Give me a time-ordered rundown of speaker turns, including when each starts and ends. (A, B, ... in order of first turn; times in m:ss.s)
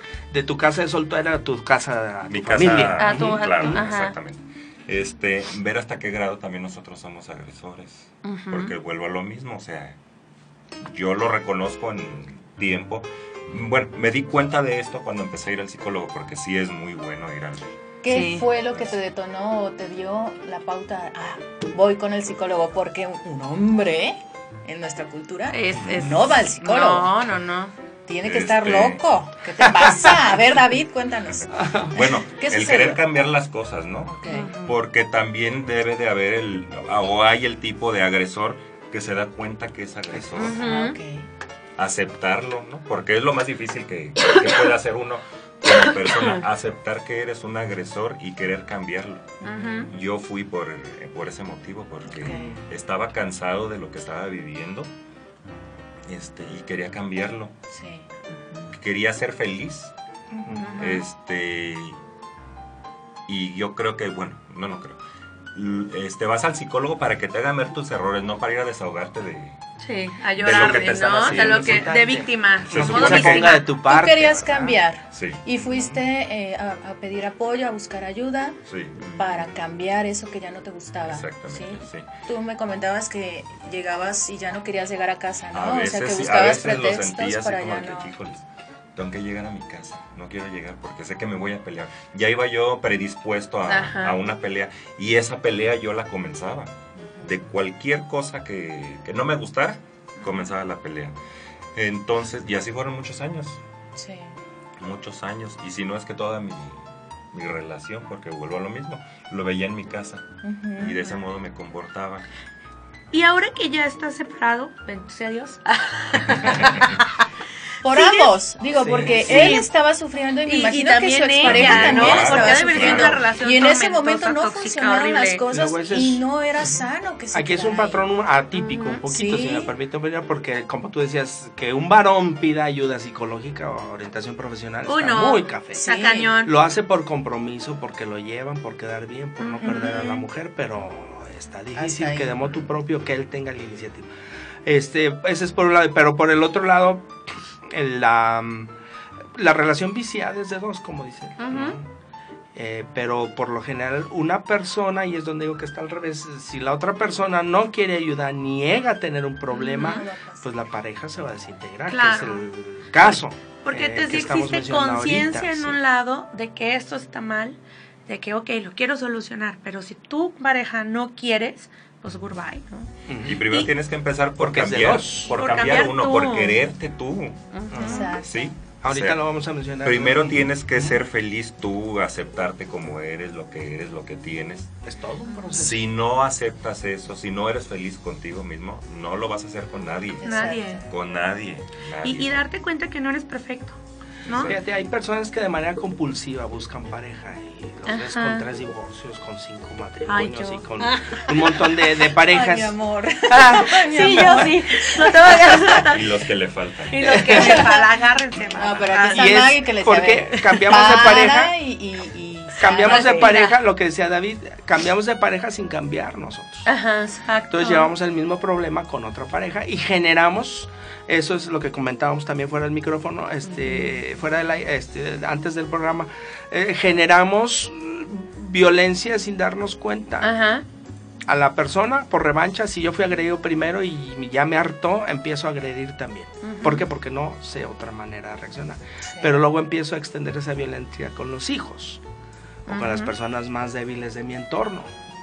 0:00.3-0:03.8 A
0:02.3-0:10.0 B
0:03.0-0:04.2 C
0:08.2-0:08.8 C
0:10.8-0:17.6 B
0:18.0-0:27.1 D
0:18.1-0:18.5 C
0:25.5-0:27.7 C
0:28.1-0:33.0 D
0:28.2-0:29.1 B
0:31.5-0:31.9 A
0:31.9-0:40.7 B
0:34.1-0:34.5 D
0:34.3-0:34.8 C
0:40.1-0:40.6 A
0:40.4-0:41.0 C
0:40.6-0:41.3 D
0:41.8-0:49.3 B
0:45.7-0:46.4 C
0:49.4-0:49.9 C
0:49.9-0:54.9 B
0:52.2-0:52.6 D
0:56.1-0:57.5 B
0:57.7-0:58.7 D
0:58.7-0:59.9 B
1:00.4-1:00.7 A
1:00.6-1:01.0 C
1:00.8-1:02.0 B
1:03.3-1:05.0 B
1:05.5-1:09.6 B
1:09.8-1:13.7 C
1:10.4-1:11.9 B
1:10.5-1:14.8 A
1:12.7-1:13.6 B
1:13.8-1:18.6 D
1:15.1-1:15.4 B
1:15.6-1:16.0 A
1:18.7-1:19.6 B
1:19.2-1:28.1 D
1:21.0-1:22.1 B
1:25.5-1:28.4 B
1:29.0-1:41.2 B
1:33.7-1:34.2 C
1:37.0-1:37.4 D
1:41.8-1:43.6 B
1:44.0-1:44.4 D
1:44.8-1:50.2 B
1:50.4-1:51.0 D
1:50.8-1:52.3 B
1:53.1-1:57.3 C
1:56.4-1:56.8 B
1:57.8-2:08.0 D
1:57.9-1:58.3 C
1:58.7-1:59.6 A
1:59.3-1:59.7 C
2:00.4-2:05.4 C
2:01.4-2:03.2 B
2:02.1-2:02.4 A
2:05.5-2:06.8 A
2:07.3-2:15.8 A
2:08.7-2:09.0 C
2:09.0-2:09.7 D
2:14.9-2:16.5 C
2:15.7-2:16.3 D
2:16.4-2:24.1 A
2:19.4-2:20.2 C
2:21.8-2:22.3 D
2:24.6-2:28.7 A
2:29.3-2:31.9 A
2:31.4-2:31.8 C
2:32.6-2:45.8 A
2:39.5-2:40.0 C
2:39.7-2:40.6 D
2:41.9-2:42.4 C
2:43.0-2:52.9 C
2:53.1-2:53.4 A
2:53.2-2:57.4 B
2:54.4-2:55.9 A
2:55.3-2:56.6 C
2:57.5-2:58.2 C
2:57.7-2:58.1 A
2:57.8-2:58.5 D
2:58.2-2:59.2 B
2:58.8-3:01.0 A
2:59.8-3:04.7 B
3:04.8-3:05.8 A
3:05.5-3:10.3 B
3:10.2-3:10.9 D
3:10.2-3:10.8 C
3:10.9-3:12.4 B
3:12.0-3:14.5 C
3:14.3-3:22.8 A
3:17.9-3:18.5 C
3:20.1-3:21.8 C
3:22.1-3:25.1 D
3:23.3-3:24.5 A
3:23.9-3:26.2 C
3:25.9-3:27.3 B
3:26.9-3:29.4 C
3:27.0-3:27.7 A
3:27.3-3:27.8 D
3:28.5-3:33.4 D
3:29.1-3:31.6 A
3:32.6-3:36.7 A
3:32.8-3:33.6 C
3:36.7-3:37.9 C
3:37.5-3:50.3 A
3:43.5-3:43.9 C
3:50.2-3:50.6 C
3:51.3-4:02.0 A
3:56.4-3:56.9 C
4:02.7-4:03.1 C
4:02.7-4:04.9 A